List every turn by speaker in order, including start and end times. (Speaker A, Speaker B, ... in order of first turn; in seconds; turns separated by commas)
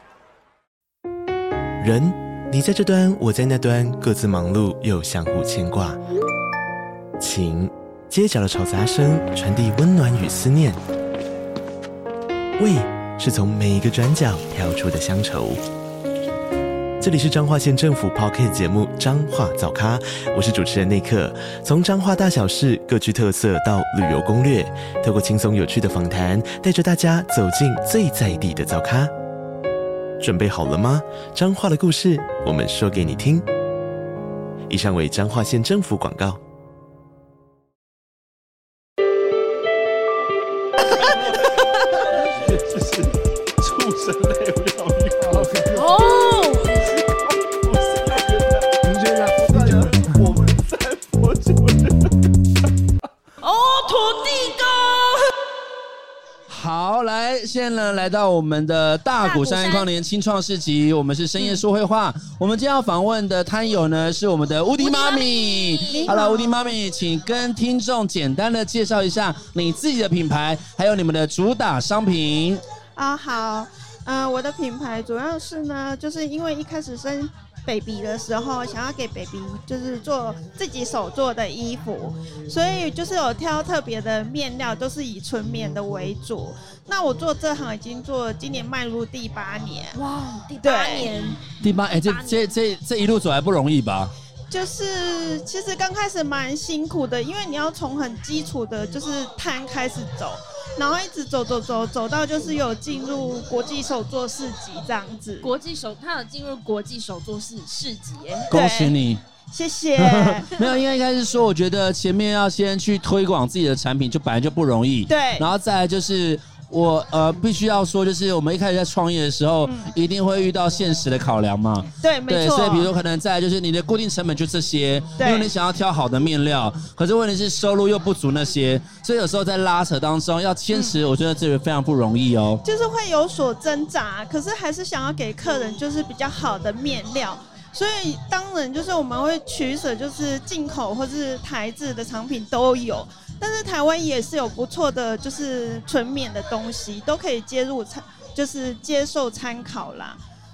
Speaker A: 1.8-6.0, Speaker A: 7.2-10.8, Speaker A: 12.6-15.6, Speaker A: 17.0-29.1, Speaker A: 30.2-33.5, Speaker A: 34.7-36.4, Speaker B: 42.4-45.6, Speaker C: 45.6-46.8, Speaker D: 47.5-51.3, Speaker B: 51.3-52.1, Speaker C: 53.4-55.3, Speaker B: 56.5-72.6, Speaker C: 59.2-59.9, Speaker C: 64.8-66.1, Speaker E: 65.9-66.8, Speaker E: 72.9-90.0, Speaker C: 89.9-92.5, Speaker E: 90.6-91.3, Speaker B: 91.6-94.1, Speaker E: 94.5-105.5, Speaker C: 105.4-108.5, Speaker B: 108.5-109.2, Speaker E: 108.5-110.8, Speaker B: 110.0-132.6, Speaker E: 115.1-115.5, Speaker E: 119.6-119.9, Speaker E: 122.0-122.9, Speaker E: 125.2-125.5, Speaker E: 130.7-131.0, Speaker E: 132.6-150.2